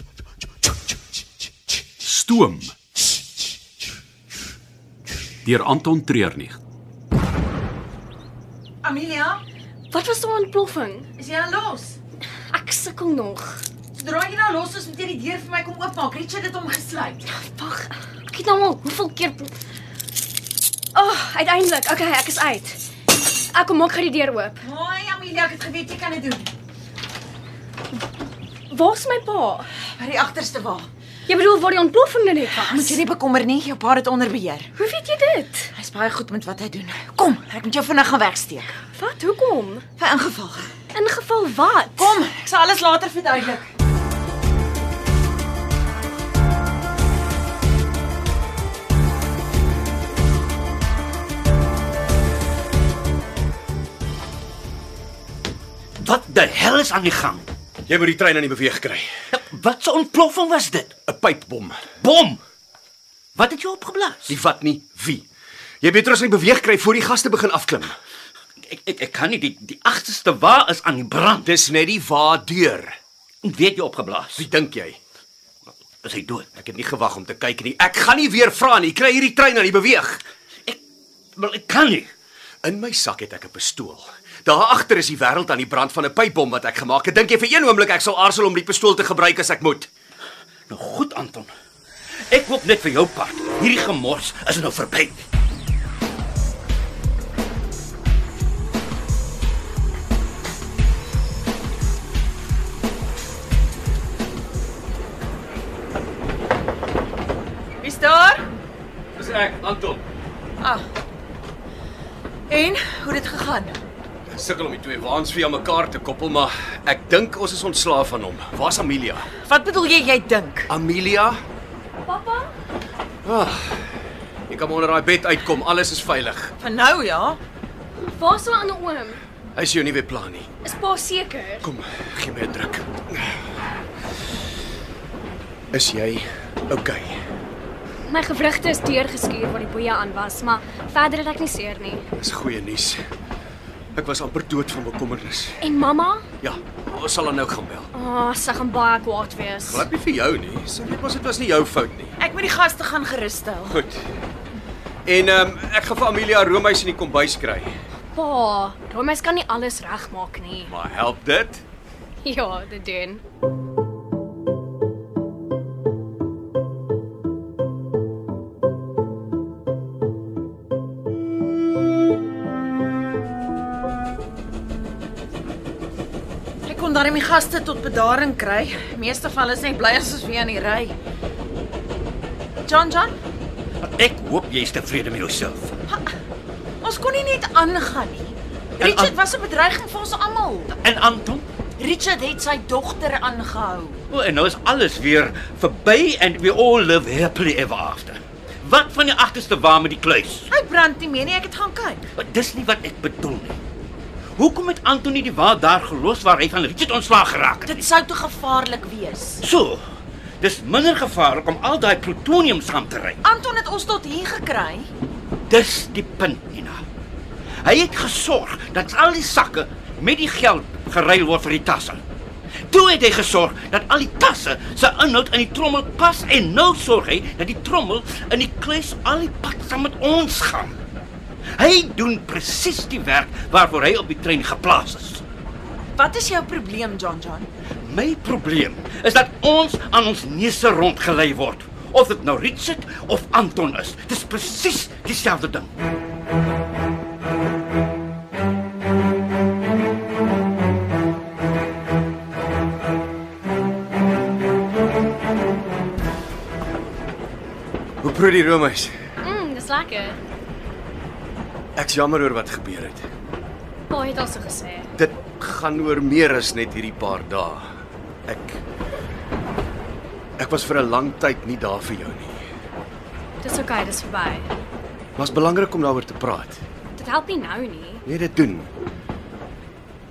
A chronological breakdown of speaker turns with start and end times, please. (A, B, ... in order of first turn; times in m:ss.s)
0:02.0-0:02.7 A
0:05.4-0:06.6 A
0:08.8-0:09.4 B
0:09.9-0:11.1 C
0:11.2-0:12.0 B
0:12.5-0:13.6 C
0:13.9-0:17.3 B
0:17.3-0:19.5 C
0:20.9-0:22.8 C
0:23.5-0:24.6 C
0:24.6-0:26.5 B
0:28.7-0:29.7 C
0:30.0-0:30.9 B
0:31.3-0:33.0 C
0:32.6-0:34.7 B
0:34.8-0:35.7 C
0:35.7-0:38.7 B
0:38.9-0:39.8 C
0:40.0-0:40.7 B
0:40.9-0:42.1 C
0:42.0-0:43.6 B
0:56.0-0:57.5 D
0:57.9-0:59.1 E
0:59.3-1:00.9 D
1:01.1-1:01.8 E
1:02.0-1:02.4 D
1:03.3-1:04.3 D
1:04.3-1:05.2 E
1:05.8-1:08.0 E
1:08.7-1:11.5 D
1:11.4-1:13.0 E
1:13.4-1:14.4 D
1:14.4-1:15.0 E
1:16.0-1:16.4 D
1:16.6-1:20.2 E
1:21.4-1:22.1 D
1:22.6-1:29.9 E
1:30.7-1:31.5 D
1:32.3-1:35.2 D
1:47.8-1:48.4 B
1:49.2-1:50.0 E
1:52.5-1:53.8 B
1:54.3-1:59.3 E
1:59.4-2:00.7 B
2:00.7-2:01.4 E
2:02.1-2:02.5 C
2:03.2-2:03.8 E
2:04.5-2:06.5 E
2:06.6-2:07.4 B
2:08.0-2:09.2 C
2:09.5-2:10.5 E
2:10.6-2:11.7 C
2:11.6-2:13.3 E
2:15.7-2:17.2 E
2:18.1-2:22.0 C
2:22.1-2:23.0 E
2:23.9-2:25.6 E
2:25.6-2:26.2 C
2:26.4-2:27.9 E
2:27.9-2:29.9 C
2:29.7-2:32.2 E
2:32.2-2:33.8 B
2:33.7-2:34.0 E
2:35.0-2:37.7 E
2:38.1-2:40.7 C
2:40.7-2:41.6 E
2:42.2-2:43.2 C
2:56.6-3:00.9 B
3:02.7-3:03.1 B
3:03.8-3:05.8 D
3:06.8-3:10.7 B
3:08.8-3:09.2 D
3:10.7-3:11.4 D
3:11.8-3:14.0 B
3:14.1-3:20.5 D
3:20.5-3:22.0 B
3:22.1-3:23.6 D
3:24.4-3:27.9 D
3:27.7-3:29.4 B
3:29.4-3:29.8 D
3:30.4-3:33.2 D
3:33.2-3:34.9 B
3:35.5-3:36.8 D
3:37.6-3:42.0 D
3:42.7-3:50.8 D
3:51.5-3:55.2 D
3:56.0-3:57.5 B
3:57.8-4:05.7 D
4:18.0-4:18.9 E
4:19.2-4:20.2 C
4:21.8-4:23.0 E
4:23.9-4:24.9 C
4:25.0-4:27.7 E
4:28.3-4:28.6 E
4:30.4-4:32.4 E
4:33.4-4:34.5 C
4:35.2-4:36.6 E
4:37.0-4:38.0 C
4:38.0-4:38.7 E